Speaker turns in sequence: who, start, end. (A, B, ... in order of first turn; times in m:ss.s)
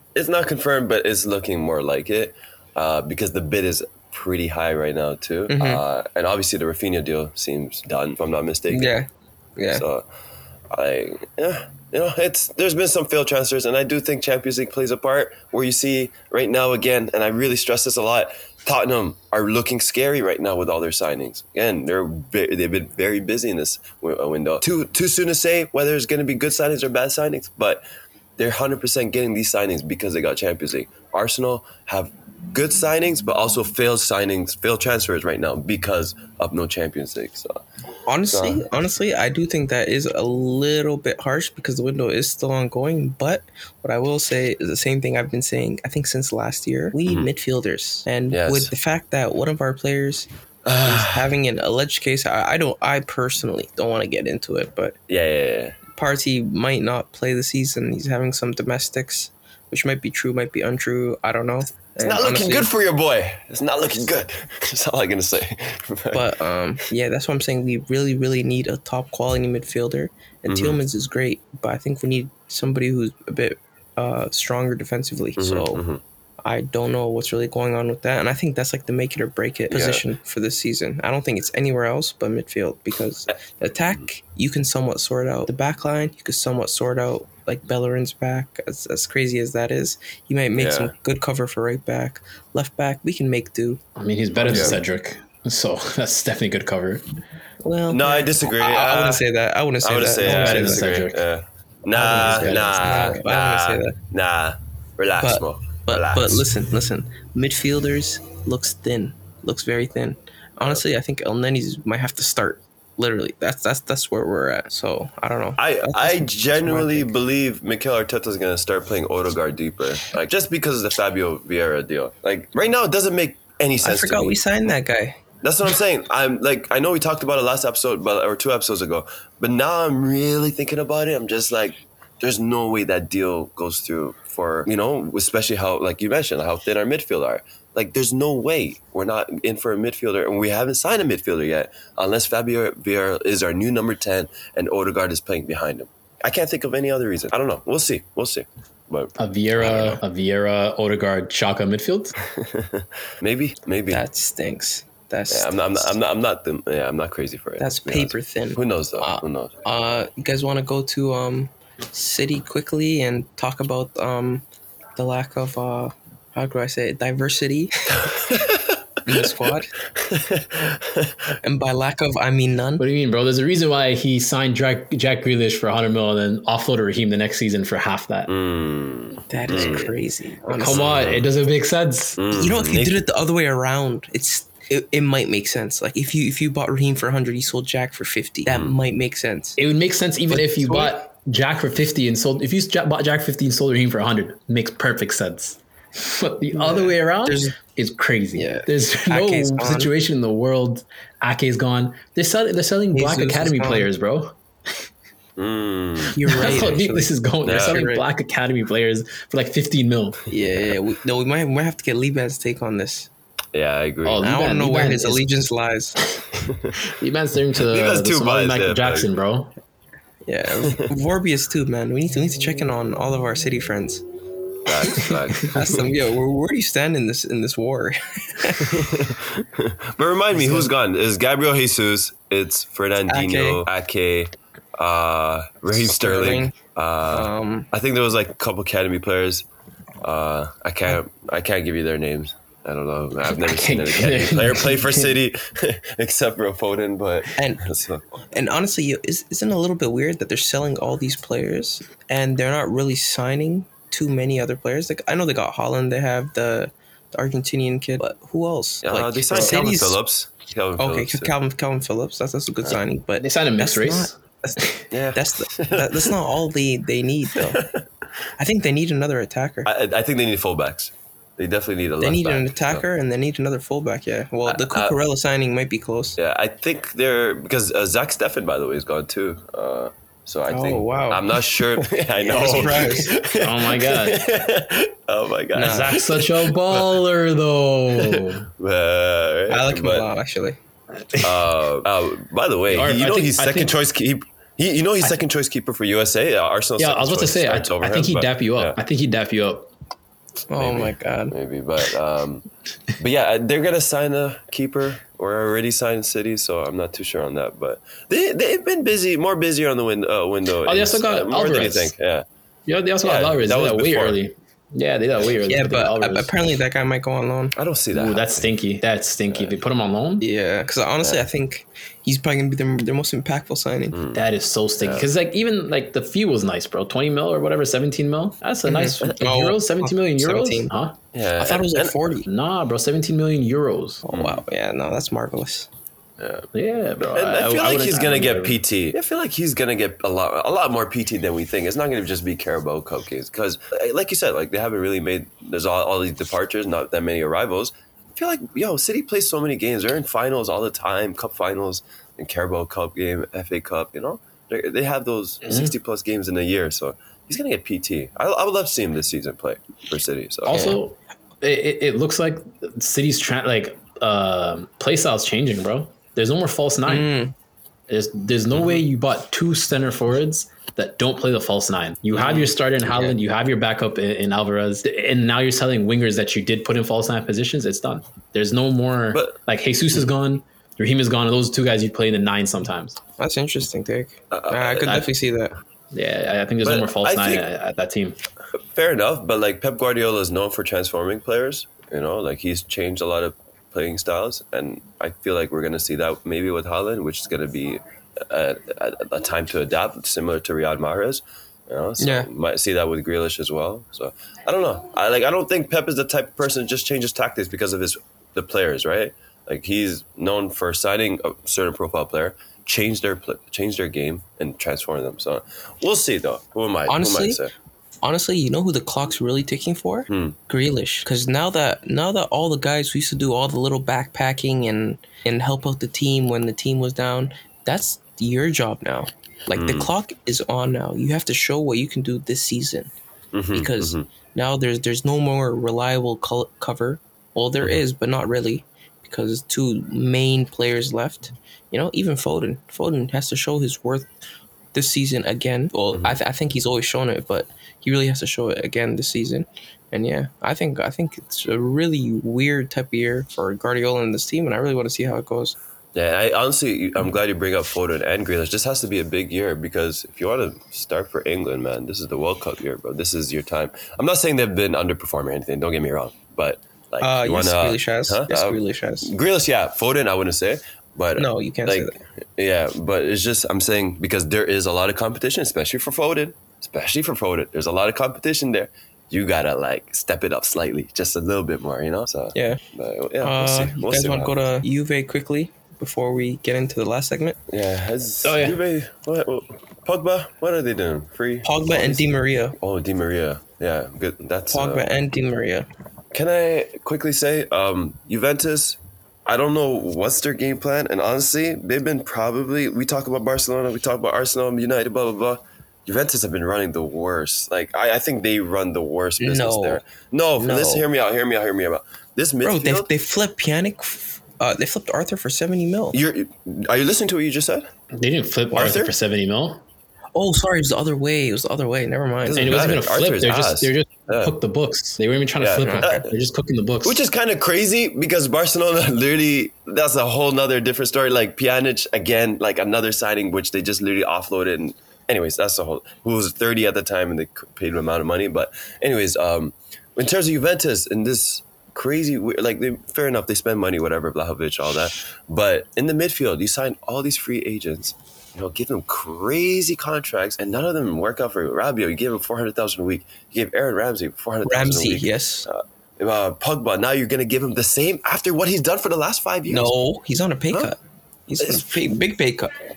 0:00.1-0:09.0 A
0:05.5-0:05.8 B
0:08.7-0:09.8 B
0:09.7-0:10.0 A
0:10.7-0:27.8 A
0:28.4-0:37.6 A
0:38.1-0:50.3 B
0:38.3-0:38.6 A
0:48.3-0:48.7 A
0:50.6-0:51.3 A
0:50.8-0:54.9 B
0:55.1-0:55.7 A
0:55.9-1:02.7 B
1:02.0-1:06.3 A
1:06.1-1:15.8 B
1:10.5-1:10.8 A
1:15.4-1:16.0 A
1:16.4-1:33.8 B
1:19.7-1:20.0 A
1:30.5-1:30.9 A
1:34.0-1:37.0 C
1:34.4-1:34.8 B
1:34.4-1:34.8 A
1:37.6-1:40.9 B
1:37.9-1:39.2 A
1:39.8-1:46.5 A
1:40.2-1:41.2 C
1:41.9-1:43.2 C
1:42.1-1:44.0 B
1:45.2-1:57.1 B
1:55.6-2:04.4 A
2:03.8-2:05.2 B
2:05.4-2:29.9 A
2:29.2-2:32.1 C
2:29.6-2:30.0 B
2:32.2-2:34.0 A
2:33.9-2:35.9 B
2:35.3-2:39.6 A
2:37.6-2:44.4 B
2:45.0-2:48.2 B
2:48.0-2:48.8 A
2:49.0-2:49.7 B
2:50.0-2:51.4 A
2:51.4-2:52.8 B
2:52.8-2:58.3 C
2:58.3-3:01.3 A
2:59.3-3:01.0 B
3:00.5-3:02.2 C
3:02.2-3:02.9 A
3:02.3-3:09.6 B
3:08.5-3:08.8 A
3:09.6-3:24.4 C
3:10.3-3:11.0 B
3:16.5-3:17.5 B
3:18.4-3:19.9 B
3:22.9-3:23.9 B
3:25.4-3:26.5 A
3:26.1-3:28.0 B
3:26.3-3:30.2 C
3:27.4-3:27.9 A
3:30.3-3:33.1 B
3:33.5-3:34.3 A
3:34.0-3:35.3 C
3:34.2-3:36.0 B
3:36.5-3:36.8 A
3:36.8-3:39.5 C
3:37.6-3:39.1 A
3:40.2-3:44.0 B
3:44.6-3:46.0 A
3:44.8-3:49.0 B
3:48.6-3:59.4 A
3:50.3-3:50.7 B
3:53.1-3:53.6 B
3:55.7-3:56.5 B
3:57.1-3:57.7 B
4:00.0-4:08.1 A
4:03.2-4:05.2 C
4:07.4-4:07.6 B
4:08.3-4:20.0 B
4:18.8-4:21.3 A
4:19.3-4:19.6 C
4:20.8-4:27.6 B
4:23.2-4:24.8 C
4:24.9-4:26.1 A
4:27.5-4:27.8 A
4:28.4-4:29.7 B
4:29.6-4:32.8 A
4:32.0-4:36.2 B
4:34.5-4:35.0 A
4:36.2-4:47.0 A
4:40.5-4:41.4 B
4:42.2-4:43.1 B
4:42.2-4:44.2 C
4:45.5-4:46.0 B
4:45.6-4:48.5 C
4:47.9-4:50.1 A
4:49.5-4:50.6 B
4:51.1-4:51.4 C
4:51.2-4:58.8 A
4:52.7-4:53.7 C
4:56.8-4:59.7 C
5:00.5-5:01.3 B
5:00.6-5:02.4 A
5:03.0-5:12.2 A
5:10.6-5:11.9 C
5:12.7-5:16.3 C
5:13.0-5:14.2 A
5:15.5-5:17.6 B
5:17.6-5:18.6 A
5:17.9-5:20.2 C
5:20.2-5:24.0 B
5:23.9-5:24.2 A
5:24.1-5:31.0 C
5:24.8-5:25.1 A
5:28.6-5:30.7 B
5:31.1-5:32.1 A
5:31.4-5:32.3 B
5:32.3-5:34.0 C
5:34.0-5:35.7 B
5:34.1-5:34.4 A
5:36.2-5:36.5 A
5:36.5-5:38.6 C
5:37.1-6:00.8 A
5:55.4-5:55.7 C
6:00.4-6:07.1 C
6:00.5-6:00.8 B
6:06.9-6:07.3 B
6:07.9-6:23.0 C
6:08.5-6:08.8 A
6:12.2-6:13.1 A
6:19.1-6:19.4 A
6:23.2-6:25.5 B
6:24.3-6:25.1 A
6:25.9-6:28.2 C
6:26.6-6:27.5 A
6:28.7-6:57.5 A
6:42.0-6:42.3 B
6:56.9-6:57.4 B
6:58.0-7:12.9 B
7:00.1-7:00.4 A
7:09.5-7:09.9 A
7:13.3-7:14.0 A
7:13.5-7:24.1 B
7:24.7-7:35.6 B
7:25.9-7:26.2 A
7:35.9-8:04.4 A
7:47.0-7:49.1 B
7:51.2-7:52.0 B
8:02.3-8:02.6 B
8:03.2-8:07.4 B
8:07.5-8:14.9 A
8:08.2-8:08.6 C
8:11.4-8:12.6 B
8:14.5-8:15.7 B
8:16.1-8:32.9 A
8:29.2-8:29.8 B
8:30.4-8:30.8 B
8:32.4-8:36.0 B
8:35.9-8:37.7 A
8:37.9-8:39.6 C
8:38.5-8:38.9 A
8:40.1-8:42.7 B
8:42.3-8:44.3 A
8:42.3-8:47.0 C
8:45.4-8:46.1 A
8:45.6-8:46.0 B
8:46.8-9:19.7 A
9:14.4-9:15.5 B
9:19.5-9:22.5 B